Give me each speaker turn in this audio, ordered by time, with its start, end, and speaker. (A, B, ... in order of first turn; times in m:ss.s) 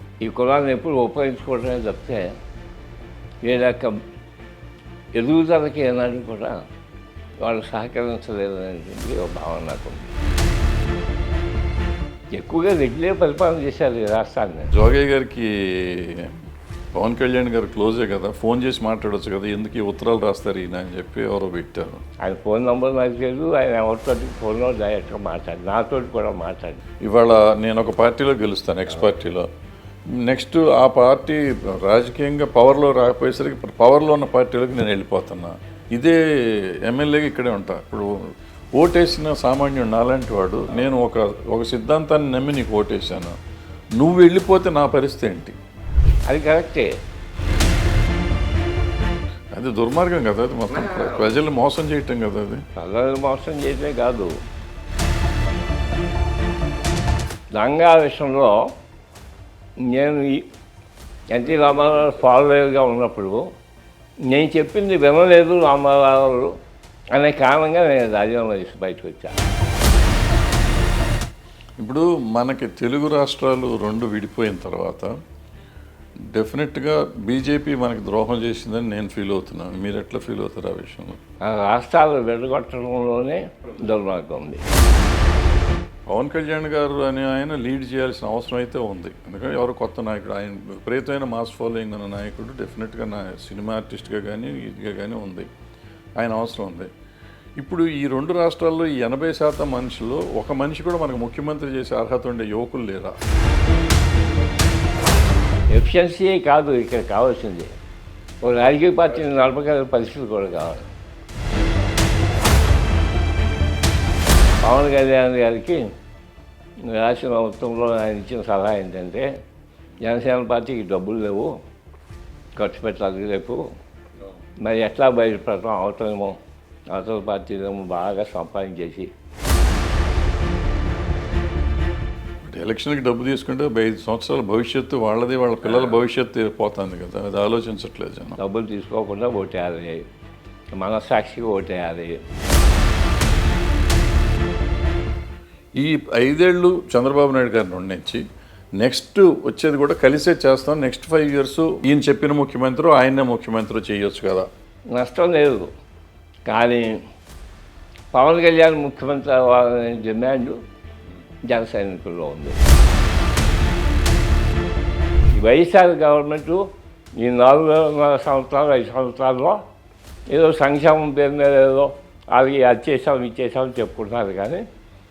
0:00.2-0:02.3 A
0:03.4-0:04.0 A
0:05.1-0:06.6 A
0:07.4-0:10.1 A
0:12.3-0:14.7 A
0:14.7-0:16.4 B
0:16.9-0:22.0 B
0:22.2-0:26.8 A
0:27.0-0:29.5 B
0:30.2-0:43.4 B
0:44.0-0:45.6 B
0:46.3-0:46.9 A
0:49.5-0:52.6 B
0:50.8-0:51.3 A
0:52.8-0:54.3 A
0:57.5-0:58.7 A
0:59.8-1:00.5 A
1:01.3-1:03.5 A
1:04.3-1:06.5 A
1:07.1-1:09.4 A
1:11.8-1:15.1 B
1:16.3-1:21.2 B
1:21.5-1:24.6 A
1:26.1-1:35.5 B
1:36.2-1:36.9 B
1:37.6-1:43.2 B
1:45.7-1:47.7 A
1:48.4-1:50.9 A
1:54.6-1:55.9 A
1:56.8-1:59.3 A
2:00.0-2:01.6 A
2:02.6-2:03.6 A
2:04.6-2:06.4 A
2:06.9-2:09.1 A
2:12.4-2:18.4 B
2:18.4-2:20.0 A
2:20.8-2:22.2 A
2:25.8-2:28.2 B
2:28.8-2:34.5 B
2:34.9-2:35.7 A
2:36.5-2:37.0 A
2:38.1-2:40.6 A
2:41.4-2:42.6 A
2:45.3-2:49.6 A
2:50.3-2:54.6 A